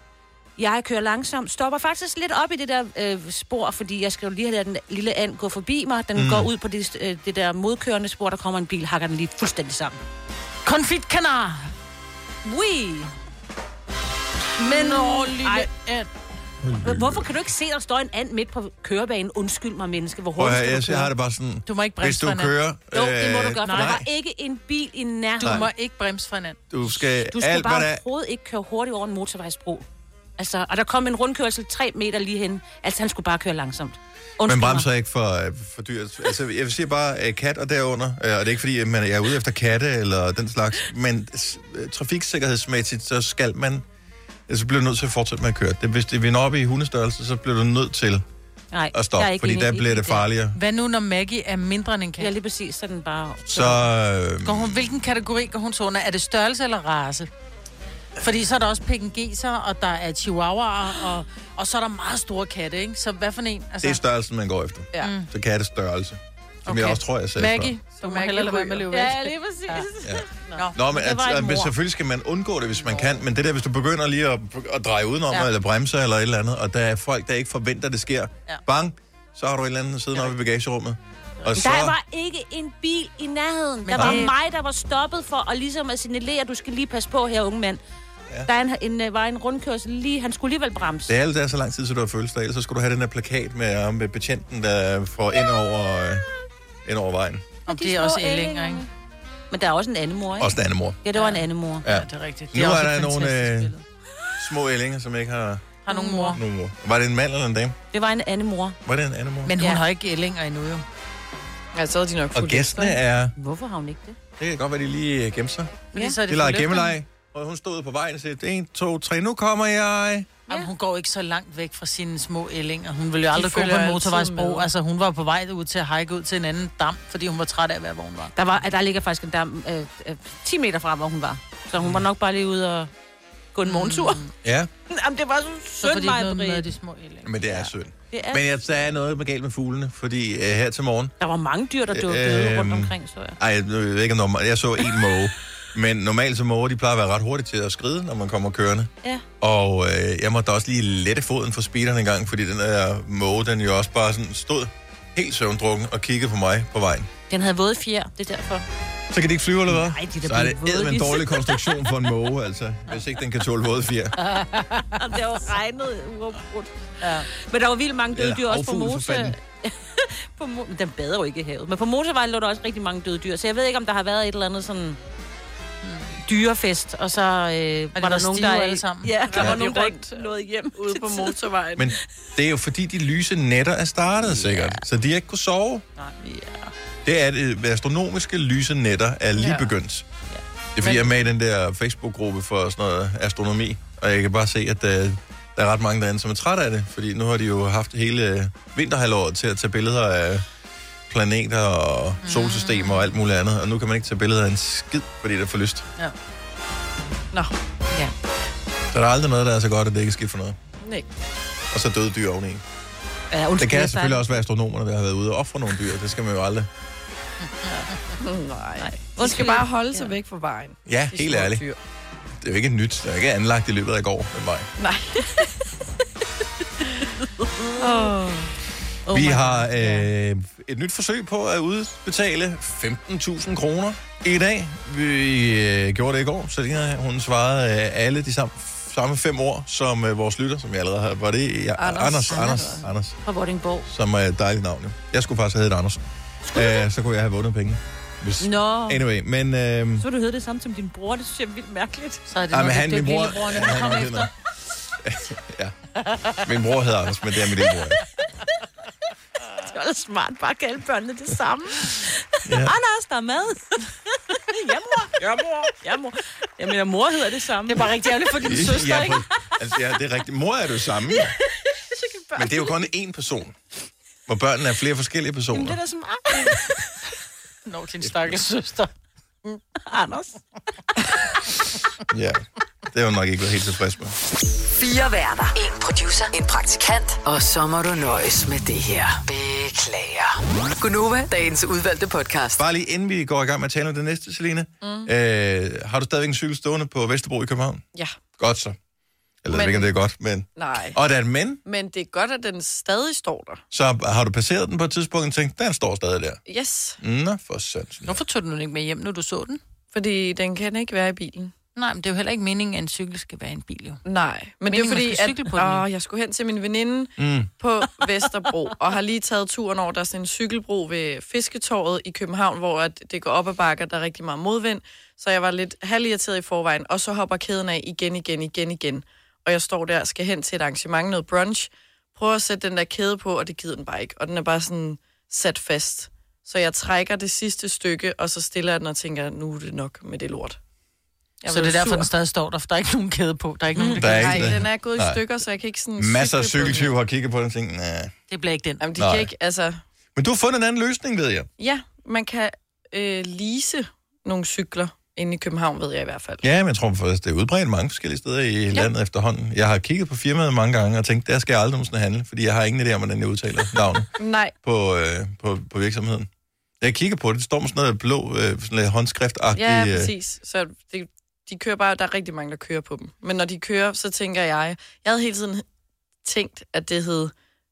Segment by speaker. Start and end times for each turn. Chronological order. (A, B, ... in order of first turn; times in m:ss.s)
0:00.6-0:10.0 A
0:06.2-0:06.5 B
0:10.6-0:11.7 C
0:12.4-0:13.1 A
0:14.6-0:16.1 C
0:14.6-0:15.7 A
0:16.6-0:17.3 B
0:16.8-0:21.1 A
0:20.4-0:24.1 B
0:21.7-0:22.5 C
0:22.9-0:25.7 A
0:23.6-0:24.0 C
0:25.4-0:26.6 C
0:25.4-0:25.7 B
0:26.7-0:28.0 B
0:27.1-0:29.8 A
0:30.4-0:34.9 A
0:34.4-0:43.8 B
0:44.5-0:48.2 B
0:48.7-0:50.3 A
0:48.9-0:50.6 B
0:50.5-0:52.3 C
0:52.2-0:53.9 A
0:53.5-0:54.8 B
0:54.4-0:57.3 C
0:58.2-1:04.0 C
1:03.8-1:07.7 B
1:05.0-1:05.3 C
1:06.7-1:09.9 C
1:08.0-1:08.9 D
1:08.9-1:11.8 A
1:10.0-1:22.0 B
1:21.5-1:27.8 A
1:23.8-1:24.4 C
1:23.9-1:24.3 B
1:28.4-1:31.1 A
1:31.1-1:36.2 B
1:36.8-1:37.5 B
1:37.7-1:38.8 C
1:37.7-1:38.9 A
1:39.5-1:41.8 A
1:40.4-1:41.0 B
1:41.1-1:43.8 C
1:41.8-1:43.7 B
1:44.4-1:45.8 B
1:45.8-1:46.4 C
1:45.9-1:46.4 A
1:46.3-1:47.8 B
1:47.9-1:48.8 A
1:48.9-1:49.6 B
1:49.4-1:50.8 C
1:51.8-1:53.0 D
1:52.4-1:53.3 B
1:53.4-1:54.2 A
1:54.4-2:00.4 B
1:55.9-1:57.0 C
2:00.5-2:08.3 C
2:03.3-2:04.7 D
2:08.4-2:12.9 A
2:11.8-2:12.0 B
2:13.6-2:14.3 A
2:13.6-2:14.3 C
2:14.4-2:14.7 B
2:14.9-2:16.7 A
2:15.8-2:17.3 C
2:17.2-2:21.1 B
2:17.4-2:18.4 A
2:21.2-2:23.4 A
2:21.9-2:37.1 B
2:37.3-2:38.6 A
2:39.1-2:44.1 B
2:39.7-2:42.1 A
2:44.2-2:45.0 C
2:44.9-2:55.0 A
2:47.0-2:47.3 C
2:48.1-2:49.4 B
2:55.8-2:56.2 C
2:56.2-3:01.9 A
2:57.9-2:59.2 C
2:59.3-3:01.8 D
3:01.8-3:05.8 B
3:04.3-3:04.8 A
3:06.0-3:06.7 A
3:07.0-3:10.1 B
3:09.4-3:09.7 D
3:10.8-3:20.4 B
3:10.8-3:11.1 D
3:21.1-3:25.9 B
3:22.2-3:22.9 C
3:28.9-3:30.6 B
3:30.8-3:31.1 D
3:31.7-3:32.6 B
3:33.3-3:34.4 A
3:33.6-3:36.7 B
3:38.2-3:41.8 D
3:38.8-3:40.1 A
3:40.9-3:41.6 B
3:42.4-3:44.7 B
3:44.8-3:45.5 D
3:47.6-3:48.1 A
3:47.8-3:48.5 D
3:49.1-3:50.1 A
3:49.1-4:03.2 B
4:01.8-4:02.8 D
4:02.3-4:03.9 A
4:03.9-4:10.1 B
4:06.5-4:06.8 A
4:08.4-4:09.0 A
4:10.0-4:12.2 A
4:12.3-4:14.3 C
4:12.5-4:14.3 B
4:15.0-4:15.8 B
4:16.4-4:18.0 B
4:19.6-4:23.9 A
4:22.4-4:22.8 B
4:24.4-4:27.9 A
4:27.6-4:29.2 C
4:28.4-4:31.3 B
4:31.9-4:32.7 A
4:32.4-4:33.6 B
4:34.3-4:35.8 B
4:35.5-4:36.9 A
4:37.7-4:38.9 C
4:38.0-4:38.3 B
4:39.9-4:40.4 A
4:42.1-4:44.2 B
4:44.6-4:52.6 E
4:52.6-4:57.8 B
4:54.8-4:55.1 D
4:58.4-4:58.8 B
4:59.4-5:01.6 B
4:59.5-4:59.9 D
5:00.6-5:01.0 D
5:01.6-5:03.6 D
5:03.7-5:06.4 B
5:06.5-5:07.0 D
5:07.0-5:08.2 B
5:08.1-5:09.6 C
5:09.9-5:11.5 D
5:11.8-5:14.0 C
5:14.0-5:40.6 D
5:14.7-5:15.8 C
5:17.2-5:17.5 B
5:41.4-5:42.1 D
5:41.5-5:44.6 C
5:43.8-5:44.1 A
5:44.0-5:45.2 B
5:44.0-5:46.9 D
5:46.0-5:48.1 B
5:48.3-5:48.8 C
5:48.8-5:49.8 D
5:49.0-5:49.3 B
5:50.1-5:51.5 B
5:51.6-5:56.4 D
5:56.4-6:04.1 B
6:04.2-6:04.5 D
6:04.6-6:06.3 B
6:06.8-6:10.1 B
6:09.5-6:15.6 D
6:16.2-6:17.3 D